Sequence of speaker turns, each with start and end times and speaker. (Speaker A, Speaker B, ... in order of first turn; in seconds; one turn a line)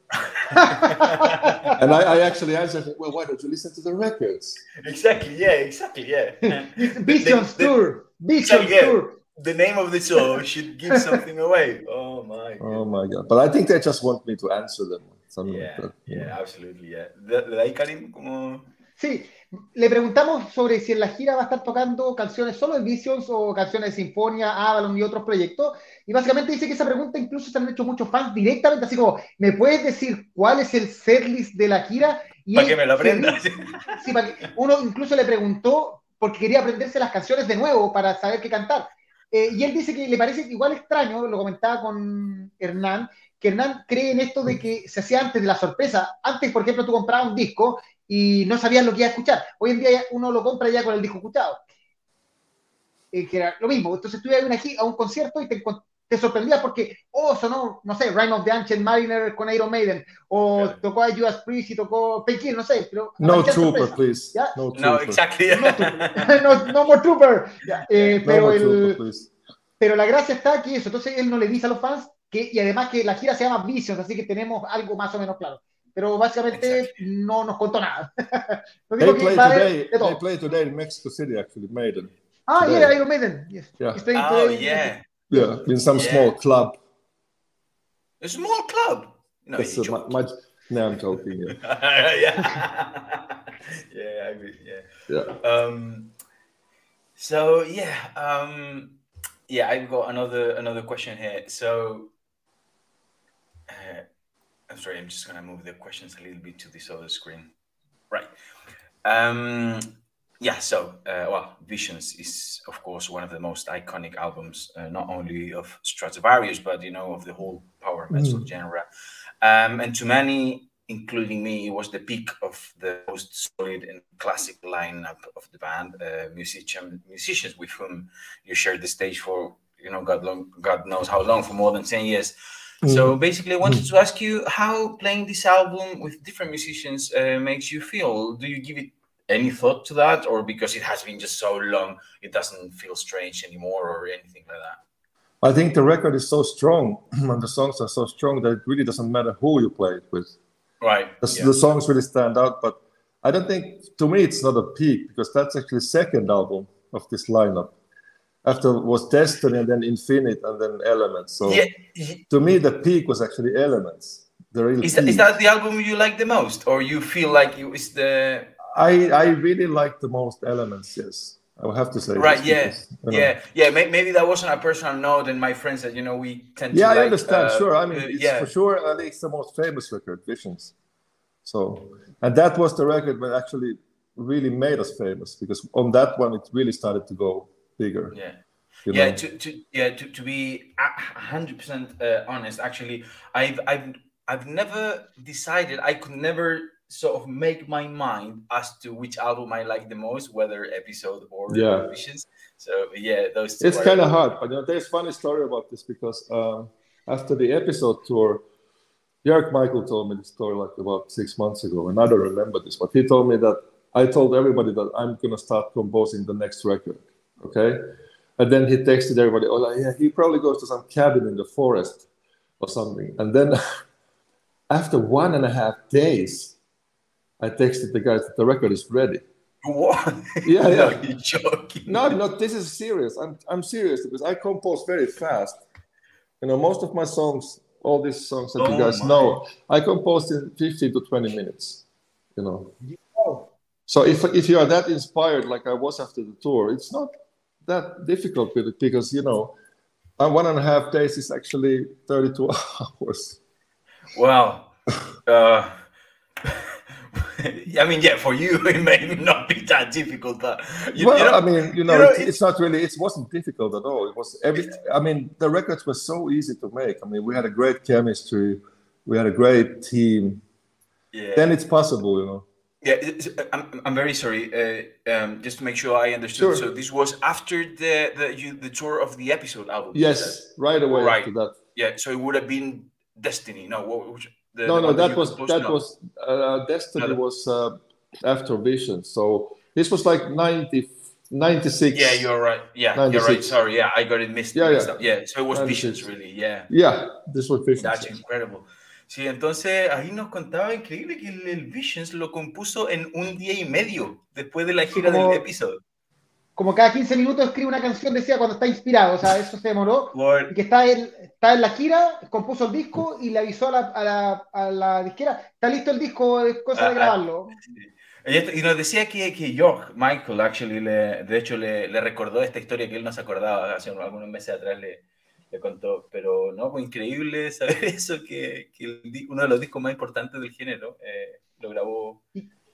Speaker A: 0.4-1.8
Speaker B: 0.5-1.7
Speaker C: 1.8-4.7
Speaker A: 4.8-7.8
Speaker B: 6.5-9.2
Speaker A: 8.4-12.9
Speaker B: 10.9-11.2
Speaker C: 12.6-16.4
Speaker A: 15.4-18.7
Speaker B: 19.0-33.4
Speaker A: 32.5-34.0
Speaker B: 33.9-51.6
Speaker B: 53.1-64.5
Speaker C: 63.2-65.2
Speaker A: 64.8-66.7
Speaker B: 65.5-69.0
Speaker A: 67.7-68.2
Speaker C: 68.2-69.3
Speaker B: 69.8-80.2
Speaker A: 76.5-77.0
Speaker C: 79.0-83.0
Speaker B: 82.5-85.5
Speaker C: 83.8-84.0
Speaker A: 84.1-85.1
Speaker C: 85.3-86.8
Speaker A: 86.0-86.3
Speaker A: 88.2-90.2
Speaker C: 89.6-91.6
Speaker A: 91.5-94.9
Speaker C: 95.1-95.3
Speaker A: 95.4-96.1
Speaker A: 97.2-99.0
Speaker A: 99.5-102.1
Speaker A: 103.7-104.0
Speaker A: 104.7-107.5
Speaker A: 109.0-109.9
Speaker A: 110.4-118.8
Speaker C: 118.1-118.5
Speaker A: 119.4-144.8
Speaker C: 132.8-133.8
Speaker C: 145.4-150.3
Speaker A: 150.8-151.5
Speaker C: 151.2-157.8
Speaker C: 158.4-161.7
Speaker A: 161.4-162.2
Speaker C: 162.3-165.3
Speaker A: 164.8-168.5
Speaker C: 168.7-173.3
Speaker A: 172.2-178.5
Speaker C: 176.7-180.7
Speaker C: 181.4-188.1
Speaker A: 188.1-204.1
Speaker C: 188.9-189.2
Speaker C: 201.5-201.9
Speaker C: 203.6-208.4
Speaker C: 209.2-217.8
Speaker C: 218.4-222.1
Speaker C: 222.6-223.6
Speaker C: 224.7-226.6
Speaker C: 227.4-229.2
Speaker A: 229.6-232.1
Speaker C: 230.4-231.0
Speaker C: 231.9-235.6
Speaker C: 236.4-241.8
Speaker A: 238.6-239.4
Speaker C: 242.4-242.7
Speaker B: 243.2-243.5
Speaker C: 243.9-247.1
Speaker C: 247.7-249.5
Speaker C: 250.2-253.4
Speaker A: 254.1-254.7
Speaker A: 255.3-255.7
Speaker A: 256.4-262.3
Speaker C: 261.0-270.4
Speaker A: 271.1-271.5
Speaker C: 271.4-272.5
Speaker A: 272.8-285.8
Speaker C: 276.4-276.7
Speaker C: 279.9-281.6
Speaker C: 284.6-292.3
Speaker A: 291.9-296.7
Speaker C: 292.9-293.6
Speaker C: 294.6-295.0
Speaker C: 295.5-296.1
Speaker C: 296.7-298.1
Speaker A: 297.8-305.8
Speaker B: 304.9-305.4
Speaker B: 306.6-317.6
Speaker A: 310.1-310.5
Speaker A: 316.7-332.3